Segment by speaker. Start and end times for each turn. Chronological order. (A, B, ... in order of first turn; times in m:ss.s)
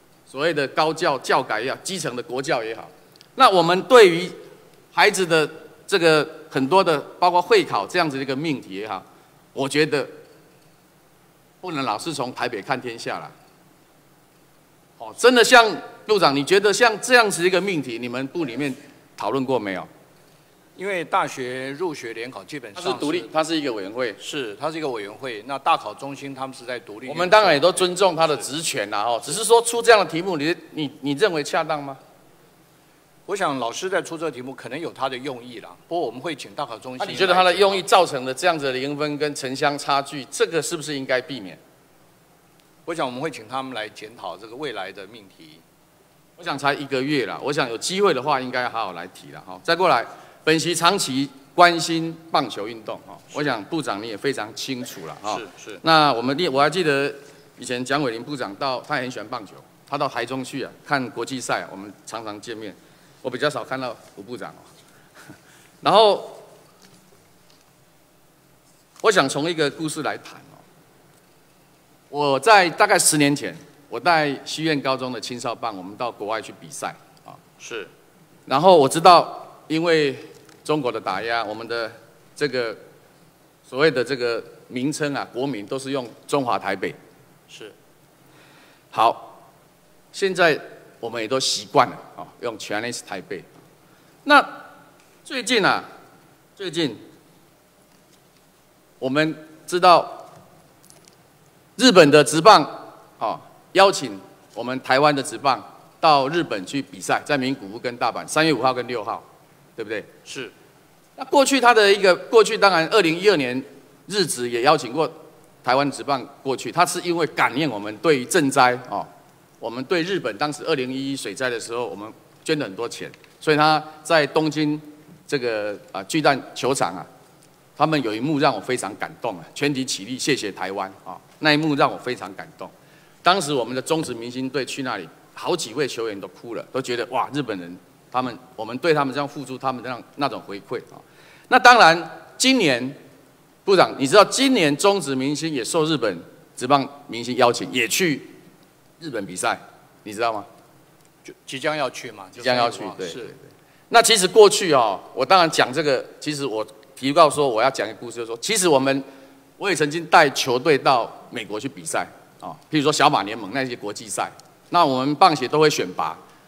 0:00.3-0:04.4 A
0:04.9-0:10.1 A
0:11.6-0:13.3 A
0:15.0-0:19.9 A
0:20.8-0:23.3 B
0:22.8-0:24.2 A
0:24.2-0:27.8 B
0:27.1-0:32.0 A
0:33.3-0:37.8 B
0:37.0-0:41.6 A
0:42.8-0:45.6 B
0:46.4-1:04.6 A
0:55.3-0:55.8 B
1:05.8-1:06.4 A
1:09.0-1:10.6 A
1:12.1-1:17.4 A
1:17.6-1:17.9 B
1:18.5-1:22.8 A
1:23.7-1:27.0 A
1:27.5-1:27.7 B
1:28.9-1:29.4 A
1:30.1-1:33.5 A
1:34.2-1:34.6 A
1:35.2-1:35.9 A
1:36.6-1:37.0 A
1:39.0-1:40.3 A
1:41.8-1:49.2 A
1:49.8-1:50.1 A
1:50.2-1:50.5 B
1:51.2-1:59.1 A
1:59.6-2:07.1 A
2:07.8-2:12.7 A
2:13.2-2:23.0 A
2:23.6-2:28.4 A
2:29.0-2:30.5 A
2:31.2-2:33.3 B
2:32.4-2:33.4 A
2:33.9-2:39.0 A
2:39.6-2:46.2 A